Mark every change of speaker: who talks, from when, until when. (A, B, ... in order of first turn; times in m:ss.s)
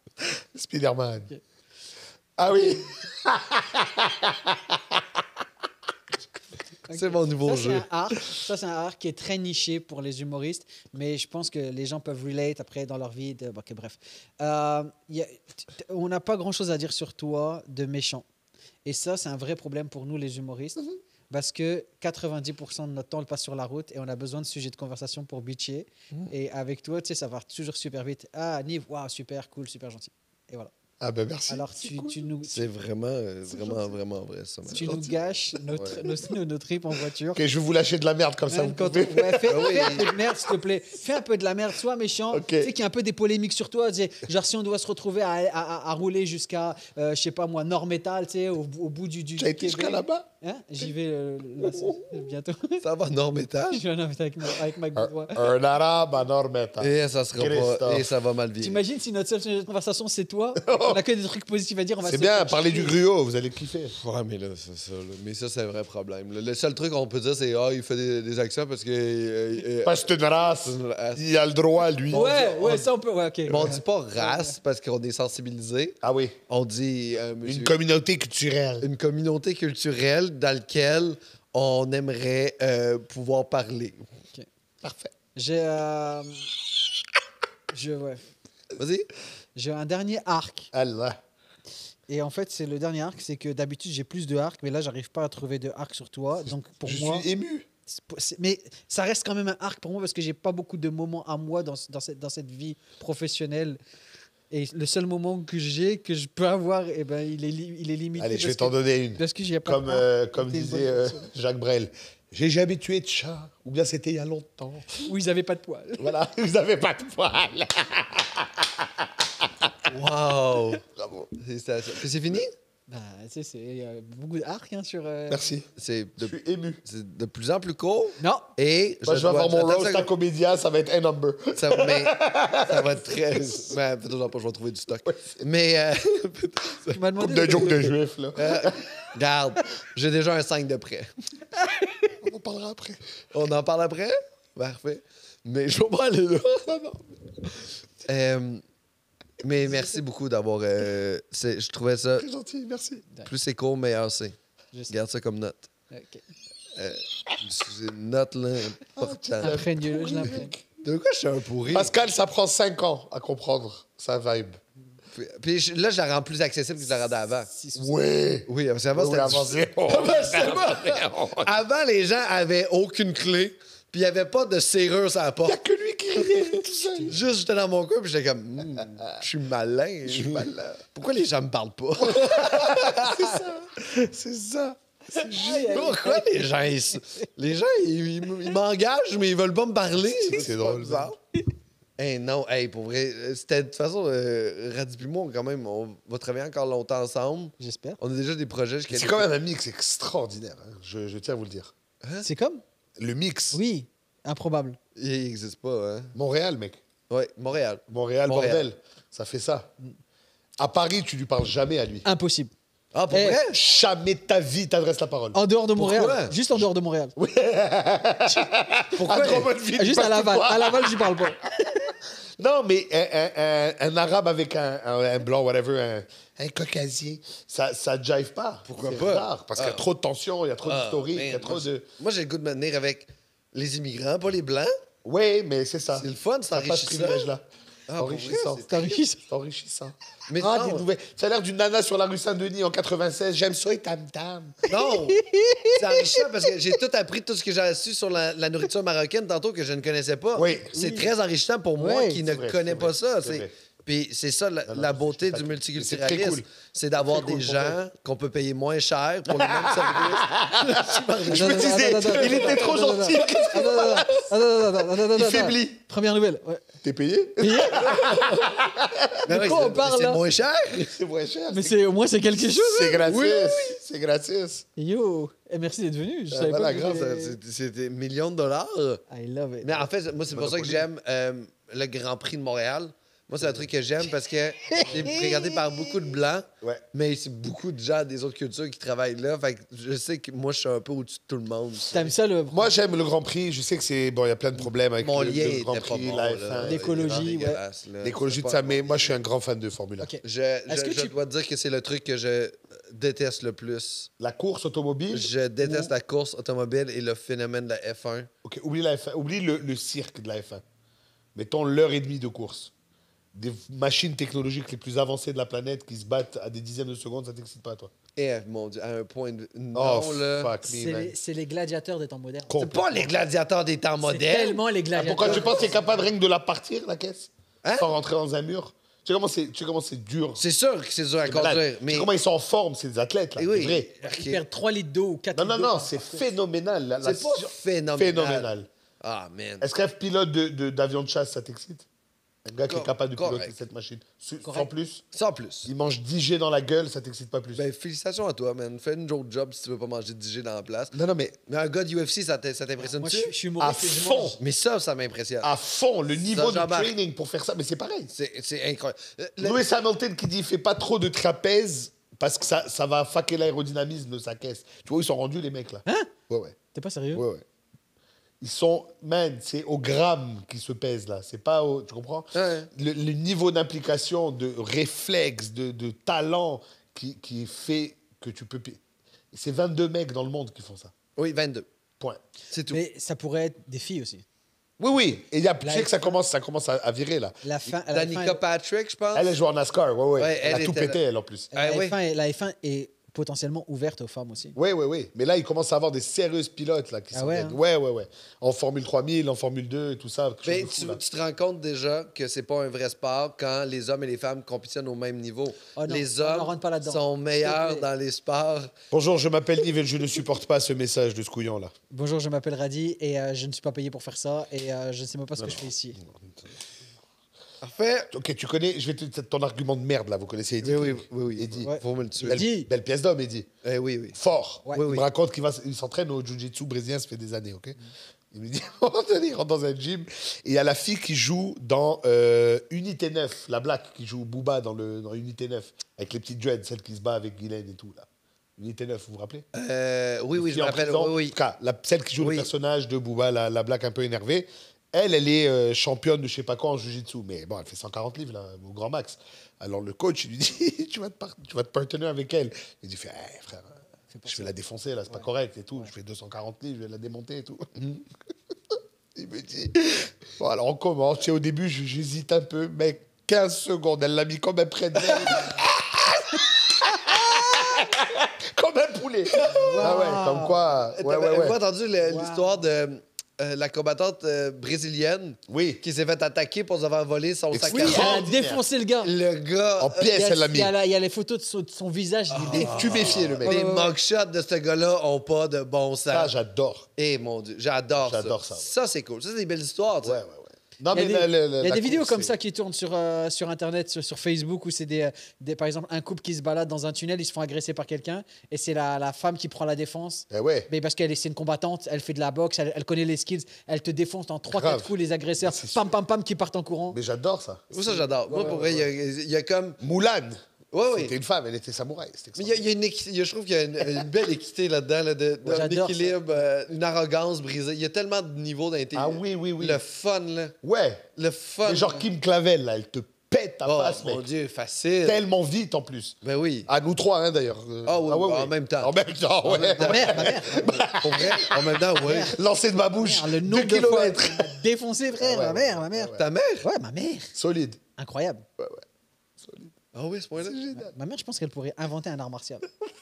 0:00.2-0:01.3 A
0:02.4-0:05.2 A
0:06.9-0:18.2 B
0:06.9-0:07.8 C
0:18.8-0:30.7 B
0:31.0-0:32.2 A
0:31.5-0:32.6 B
0:32.4-0:35.0 C
0:33.5-0:34.0 A
0:34.7-0:35.2 A
0:34.7-0:37.4 B
0:35.7-0:36.0 C
0:35.7-0:36.3 A
0:37.3-0:40.5 A
0:38.5-0:52.8 B
0:39.4-0:40.1 C
0:42.3-0:42.7 A
0:49.4-0:50.2 A
0:51.6-0:52.3 A
0:52.8-0:53.8 C
0:53.7-0:55.4 B
0:55.0-0:58.1 A
0:56.8-0:58.8 C
0:58.6-1:03.0 B
1:00.6-1:01.0 A
1:02.0-1:03.9 A
1:04.0-1:11.2 C
1:09.8-1:12.8 A
1:12.1-1:12.8 C
1:12.1-1:14.5 B
1:13.5-1:17.7 C
1:16.0-1:16.4 A
1:17.4-1:18.8 A
1:18.8-1:24.1 C
1:24.8-1:25.1 A
1:25.3-1:26.5 B
1:27.7-1:28.3 B
1:28.8-1:29.1 C
1:29.6-1:30.7 B
1:30.7-1:31.2 A
1:32.1-1:37.2 B
1:36.5-1:37.6 A
1:37.9-1:43.8 B
1:44.5-1:51.2 B
1:48.2-1:55.0 A
1:55.0-1:56.1 B
1:56.0-1:59.9 A
1:59.9-2:00.8 C
2:00.9-2:01.3 A
2:01.4-2:02.5 C
2:02.9-2:05.4 B
2:05.3-2:05.7 A
2:05.8-2:10.1 C
2:06.2-2:06.8 A
2:08.2-2:08.5 B
2:09.0-2:13.7 A
2:11.5-2:17.0 C
2:15.0-2:15.4 A
2:16.9-2:17.9 B
2:17.2-2:19.1 A
2:18.3-2:21.1 C
2:21.6-2:22.1 B
2:22.2-2:23.0 A
2:23.3-2:26.8 C
2:26.7-2:27.0 A
2:28.0-2:28.6 C
2:29.4-2:32.2 C
2:32.2-2:33.0 A
2:33.2-2:34.4 C
2:34.9-2:35.7 C
2:35.9-2:36.2 B
2:36.7-2:39.6 C
2:39.0-2:40.6 A
2:39.4-2:40.5 B
2:40.8-2:41.9 C
2:41.7-2:44.6 A
2:45.1-2:47.5 C
2:47.5-2:47.9 B
2:47.7-2:51.5 A
2:48.5-2:55.6 C
2:55.4-2:57.2 A
2:56.7-2:57.1 B
2:57.0-3:03.4 C
3:00.0-3:00.6 A
3:02.0-3:06.0 A
3:05.2-3:06.5 B
3:05.7-3:11.2 C
3:10.2-3:11.1 A
3:12.0-3:19.3 C
3:17.6-3:18.0 B
3:18.9-3:21.7 A
3:22.2-3:22.6 B
3:23.0-3:23.6 A
3:23.5-3:24.8 B
3:25.0-3:26.1 C
3:26.1-3:26.8 A
3:27.1-3:28.6 C
3:27.9-3:29.7 A
3:30.6-3:32.0 A
3:32.0-3:32.5 B
3:32.9-3:33.6 C
3:33.1-3:33.4 B
3:33.4-3:35.4 A
3:35.3-3:37.1 B
3:35.8-3:36.4 C
3:37.2-3:51.8 A
3:38.9-3:39.5 C
3:39.8-3:42.0 B
3:48.6-3:49.8 C
3:50.6-3:54.7 C
3:55.0-3:57.4 A
3:56.0-3:57.2 C
3:57.9-3:58.7 C
3:58.0-4:04.6 A
3:58.6-3:59.2 B
4:00.3-4:00.8 C
4:04.7-4:05.2 C
4:04.7-4:06.5 B
4:05.7-4:24.2 C
4:10.3-4:10.7 A
4:10.7-4:11.0 B
4:11.8-4:12.2 B
4:12.2-4:13.5 A
4:14.6-4:16.5 A
4:17.0-4:17.8 A
4:19.3-4:24.3 A
4:20.7-4:26.7 B
4:24.9-4:25.8 A
4:26.8-4:29.2 A
4:27.4-4:28.1 B
4:27.7-4:28.6 C
4:29.2-4:30.9 C
4:29.3-4:30.2 B
4:30.7-4:31.8 A
4:31.5-4:33.8 B
4:32.4-4:34.6 A
4:34.8-4:37.4 B
4:36.3-4:37.1 A
4:36.8-4:39.0 C
4:39.1-4:39.8 B
4:39.6-4:52.1 C
4:40.3-4:40.8 A
4:44.7-4:46.1 B
4:51.9-4:52.7 B
4:52.5-4:57.3 A
4:55.0-4:59.1 C
4:56.6-4:57.6 B
4:58.0-5:00.1 A
5:00.0-5:01.1 B
5:00.2-5:04.1 C
5:04.2-5:05.9 A
5:05.1-5:08.3 C
5:08.4-5:10.6 A
5:11.3-5:12.7 A
5:13.3-5:17.9 A
5:18.2-5:20.5 C
5:19.7-5:21.1 A
5:20.6-5:22.9 B
5:22.5-5:23.1 A
5:22.5-5:24.6 C
5:24.0-5:25.7 B
5:25.0-5:30.4 A
5:25.2-5:25.6 C
5:27.6-5:27.9 C
5:30.4-5:32.1 C
5:31.2-5:33.9 A
5:33.4-5:34.4 C
5:34.0-5:36.2 B
5:35.3-5:38.7 A
5:37.0-5:38.5 C
5:39.0-5:39.7 C
5:39.6-5:41.9 A
5:42.4-5:45.0 A
5:42.7-5:43.5 C
5:44.4-5:44.7 B
5:45.1-5:45.7 C
5:45.6-5:47.6 A
5:47.5-5:50.9 C
5:50.9-5:51.4 A
5:51.5-5:53.3 C
5:52.8-5:54.4 B
5:53.6-5:54.4 A
5:54.4-5:55.5 C
5:55.4-5:58.1 A
5:56.1-5:56.9 C
5:58.1-5:59.6 C
5:59.4-6:06.6 A
6:05.8-6:06.1 B
6:06.7-6:07.2 B
6:07.1-6:07.4 A
6:08.4-6:18.8 A
6:12.3-6:12.7 C
6:19.3-6:20.9 A
6:21.2-6:21.7 C
6:22.5-6:22.8 C
6:22.7-6:24.2 B
6:24.8-6:27.4 A
6:25.6-6:26.2 B
6:27.4-6:28.4 B
6:27.9-6:29.4 C
6:29.1-6:31.5 A
6:30.2-6:31.0 C
6:31.5-6:34.6 B
6:31.5-6:32.0 C
6:34.5-6:41.0 A
6:37.1-6:37.6 B
6:40.4-6:48.7 C
6:45.8-6:47.8 B
6:48.9-6:51.7 A
6:51.9-6:56.0 B
6:55.4-6:56.5 A
6:57.6-6:58.1 C
6:58.1-7:03.5 A
7:00.6-7:02.4 C
7:01.6-7:02.7 B
7:03.6-7:04.2 C
7:04.2-7:07.8 A
7:04.7-7:05.0 C
7:08.3-7:19.4 A
7:19.5-7:21.4 C
7:20.3-7:33.7 A
7:22.2-7:22.5 C
7:34.1-7:34.5 B
7:34.3-7:38.0 A
7:39.1-7:51.6 A
7:45.0-7:45.4 C
7:47.0-7:47.8 B
7:49.4-7:50.2 C
7:49.5-7:50.6 B
7:50.9-7:58.1 C
7:52.0-7:52.6 B
7:55.5-7:55.8 A
7:57.5-7:58.6 A
7:57.7-7:59.1 B
7:59.0-8:00.0 C
7:59.8-8:00.7 A
8:00.0-8:03.9 B
8:02.3-8:06.3 C
8:02.5-8:03.6 A
8:06.1-8:06.9 A
8:07.0-8:10.2 C
8:08.0-8:08.7 A
8:10.0-8:12.3 A
8:10.9-8:27.0 B
8:20.3-8:20.7 A
8:24.5-8:25.9 A
8:26.9-8:27.6 A
8:27.7-8:29.8 C
8:27.7-8:28.8 B
8:29.8-8:30.4 A
8:30.7-8:31.2 C
8:30.9-8:32.6 A
8:32.4-8:40.5 C
8:35.4-8:36.2 B
8:38.9-8:39.8 A
8:40.6-8:41.1 A
8:41.2-8:42.0 C
8:41.6-8:44.2 A
8:43.6-8:45.2 C
8:45.0-8:46.2 A
8:46.2-8:46.7 C
8:46.7-8:51.8 A
8:47.8-8:52.3 C
8:49.8-8:50.8 B
8:52.0-8:57.3 B
8:52.3-8:54.6 A
8:55.1-8:56.2 A
8:56.2-8:56.6 C
8:57.3-8:57.8 A
8:58.0-8:58.4 B
8:58.6-8:58.8 A
8:59.4-8:59.7 A
8:59.9-9:00.6 C
9:00.4-9:00.9 A
9:00.7-9:02.7 B